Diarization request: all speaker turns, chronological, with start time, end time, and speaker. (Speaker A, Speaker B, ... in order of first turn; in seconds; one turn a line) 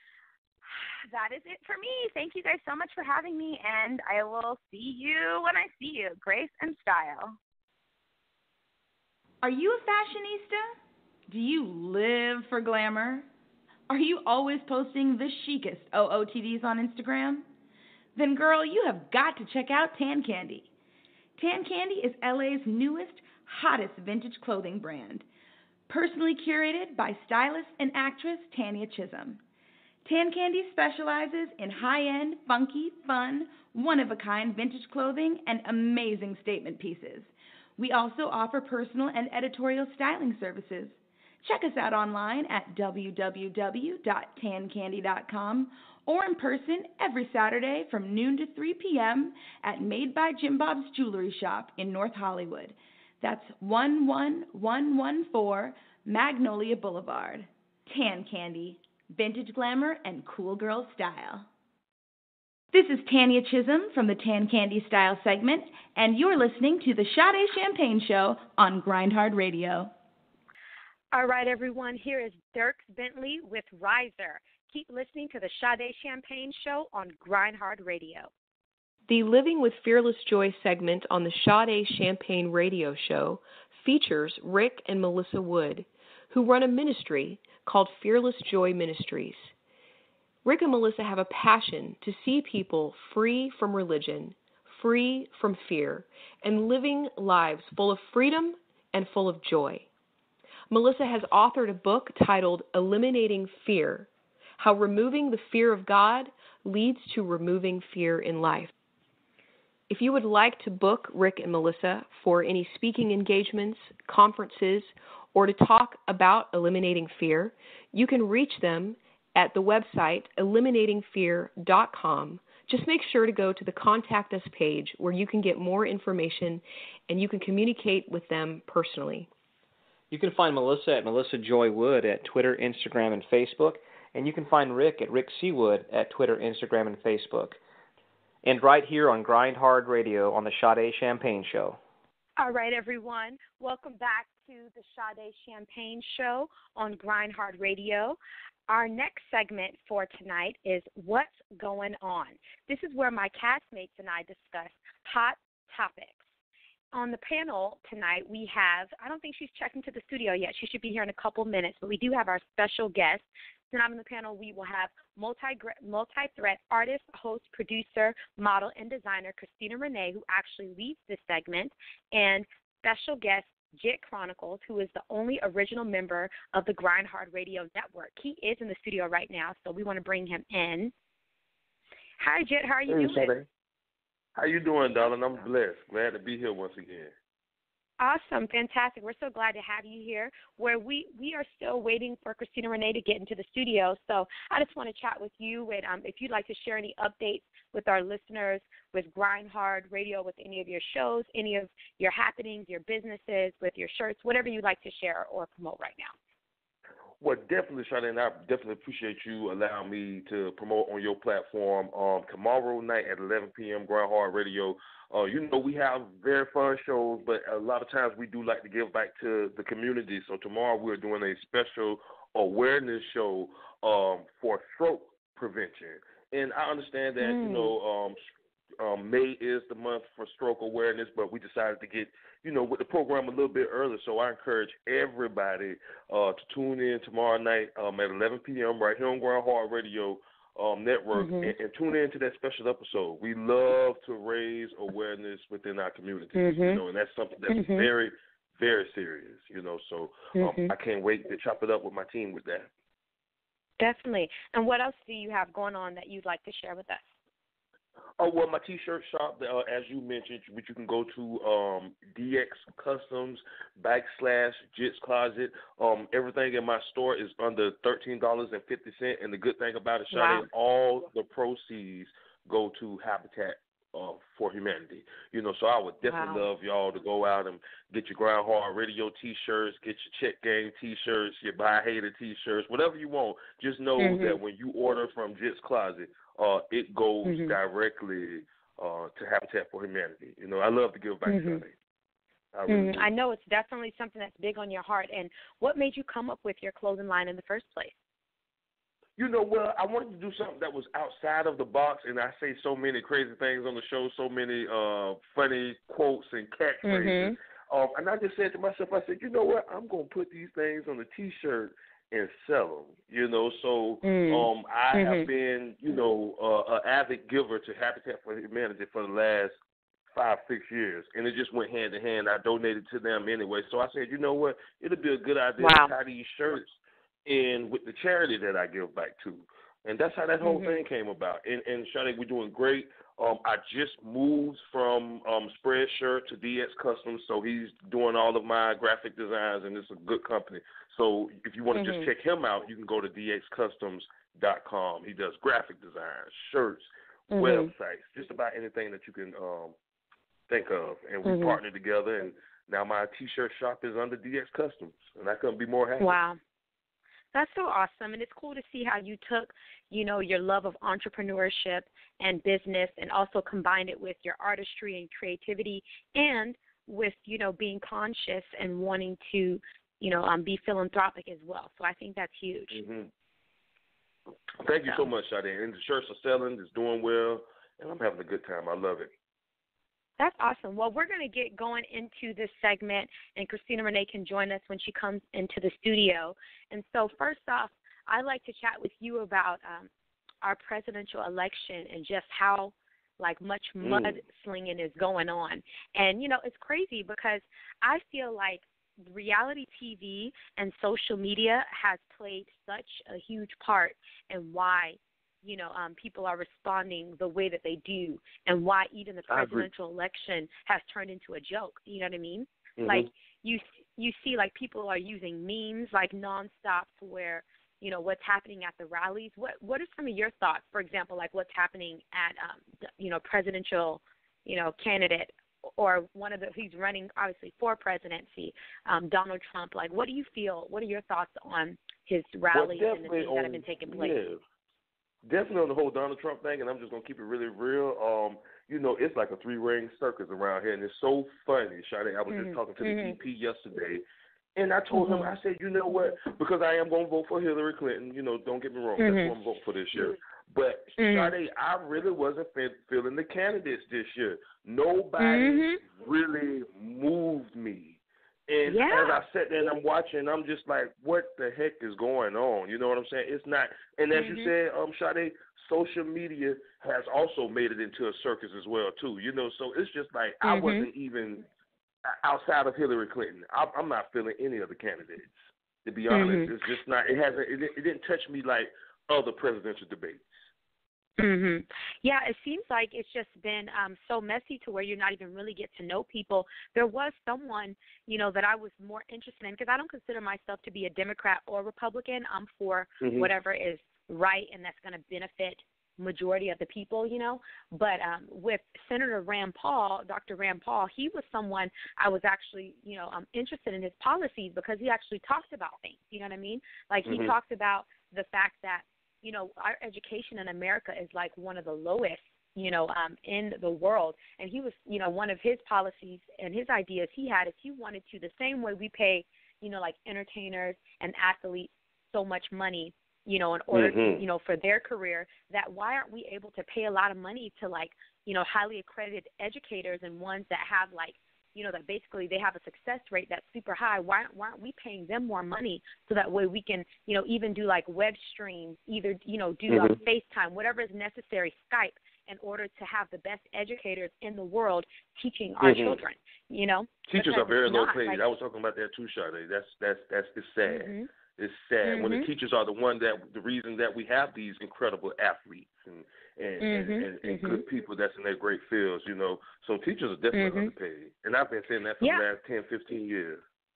Speaker A: 0.6-7.3
Speaker B: 9.4-10.7
Speaker B: 11.3-13.3
Speaker B: 13.9-17.5
Speaker B: 18.1-20.7
Speaker B: 21.4-25.2
Speaker B: 25.9-29.4
Speaker B: 30.0-61.5
Speaker B: 62.7-69.9
Speaker C: 71.1-78.3
Speaker D: 79.1-89.5
Speaker D: 90.4-99.9
Speaker D: 100.7-108.7
Speaker D: 109.9-129.3
Speaker E: 130.1-137.6
Speaker E: 138.4-141.8
Speaker C: 142.4-148.2
Speaker C: 148.7-156.2
Speaker C: 156.9-180.9
Speaker C: 182.2-183.3
Speaker F: 182.9-183.4
Speaker F: 184.4-187.1
Speaker C: 188.0-206.1
Speaker F: 207.2-228.2
Speaker C: 227.2-227.7
Speaker F: 228.8-252.7
Speaker C: 241.1-241.5
Speaker C: 246.3-246.8
Speaker C: 247.5-247.9
Speaker C: 250.3-250.7
Speaker C: 253.8-257.1
Speaker F: 258.2-291.7
Speaker C: 270.1-270.5
Speaker C: 276.1-276.5
Speaker C: 284.0-284.4
Speaker C: 287.2-287.6
Speaker C: 291.2-291.6
Speaker F: 292.5-293.1
Speaker C: 292.7-297.9
Speaker F: 299.2-319.5
Speaker C: 306.8-307.4
Speaker C: 314.0-315.3
Speaker F: 320.1-349.7
Speaker C: 325.6-325.9
Speaker C: 330.4-330.8
Speaker C: 341.7-342.1
Speaker C: 347.3-347.7
Speaker F: 350.5-356.2
Speaker C: 351.2-351.6
Speaker C: 356.0-356.4
Speaker C: 357.3-372.8
Speaker F: 372.7-373.1
Speaker F: 374.6-379.1
Speaker C: 380.2-389.9
Speaker C: 390.4-434.2
Speaker F: 393.8-394.2
Speaker F: 409.3-409.7
Speaker F: 412.8-413.1
Speaker F: 432.5-434.4
Speaker F: 435.2-444.0
Speaker C: 442.3-443.2
Speaker F: 444.6-471.4
Speaker C: 444.9-445.3
Speaker C: 449.0-449.4
Speaker C: 451.0-451.3
Speaker C: 455.2-455.8
Speaker C: 458.6-459.2
Speaker C: 464.1-464.5
Speaker C: 470.4-470.9
Speaker F: 472.2-480.3
Speaker C: 476.1-476.5
Speaker C: 481.2-548.2
Speaker F: 493.0-493.3
Speaker F: 507.0-507.3
Speaker F: 523.7-524.2
Speaker F: 539.7-540.0
Speaker F: 545.6-546.0
Speaker F: 547.1-563.4
Speaker C: 550.6-551.1
Speaker C: 551.8-552.3
Speaker C: 556.6-557.6
Speaker C: 560.3-560.7